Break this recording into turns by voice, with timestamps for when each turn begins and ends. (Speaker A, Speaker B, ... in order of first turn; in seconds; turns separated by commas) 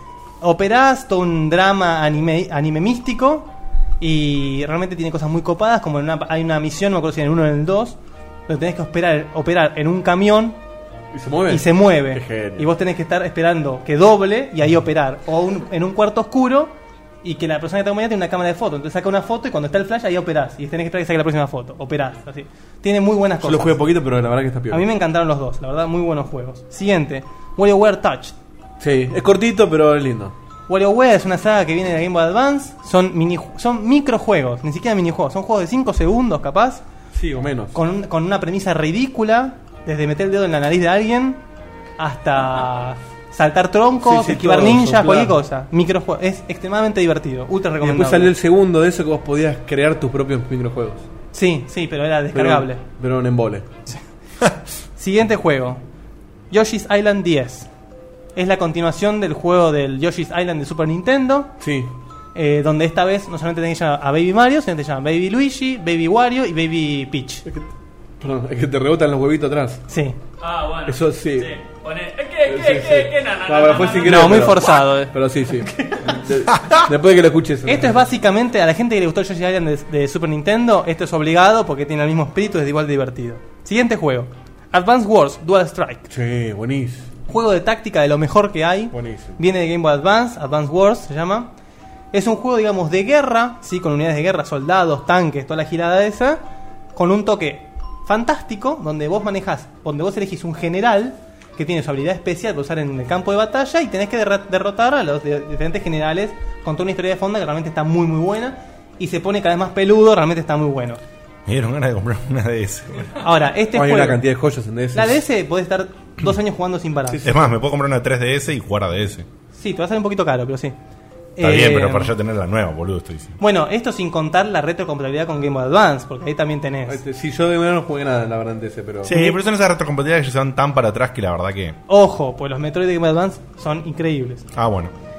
Speaker A: 0.4-3.5, Speaker A: 4.0-8.0, Speaker A: 8.5-10.6, Speaker B: 11.1-12.7, Speaker A: 11.5-23.8, Speaker B: 23.4-24.9, Speaker A: 24.7-28.3, Speaker B: 28.8-30.3, Speaker A: 30.7-36.8, Speaker B: 37.1-37.8, Speaker A: 37.7-41.4, Speaker A: 42.0-48.3, Speaker B: 44.0-45.4, Speaker B: 47.8-51.0, Speaker A: 51.3-52.8, Speaker B: 52.3-53.6, Speaker A: 54.9-55.8, Speaker A: 56.5-57.7, Speaker A: 58.3-61.5, Speaker B: 61.6-61.9, Speaker A: 62.3-67.4, Speaker B: 67.5-69.8, Speaker A: 69.9-70.2, Speaker C: 70.4-74.4, Speaker B: 70.8-71.5, Speaker B: 72.5-78.0, Speaker A: 74.0-76.2, Speaker A: 77.7-86.1, Speaker B: 86.1-87.1, Speaker A: 87.3-91.5, Speaker B: 88.9-89.4, Speaker A: 92.1-96.4, Speaker A: 96.9-111.0, Speaker D: 111.5-113.2, Speaker A: 113.2-114.2, Speaker B: 113.7-115.2, Speaker A: 114.9-117.2, Speaker B: 117.1-117.3, Speaker D: 117.2-119.2, Speaker A: 119.5-120.7, Speaker A: 121.3-122.1, Speaker D: 121.4-123.4, Speaker A: 123.4-127.0, Speaker B: 126.9-129.1, Speaker D: 129.0-131.8, Speaker A: 129.1-129.4, Speaker A: 131.9-134.4, Speaker D: 134.5-134.9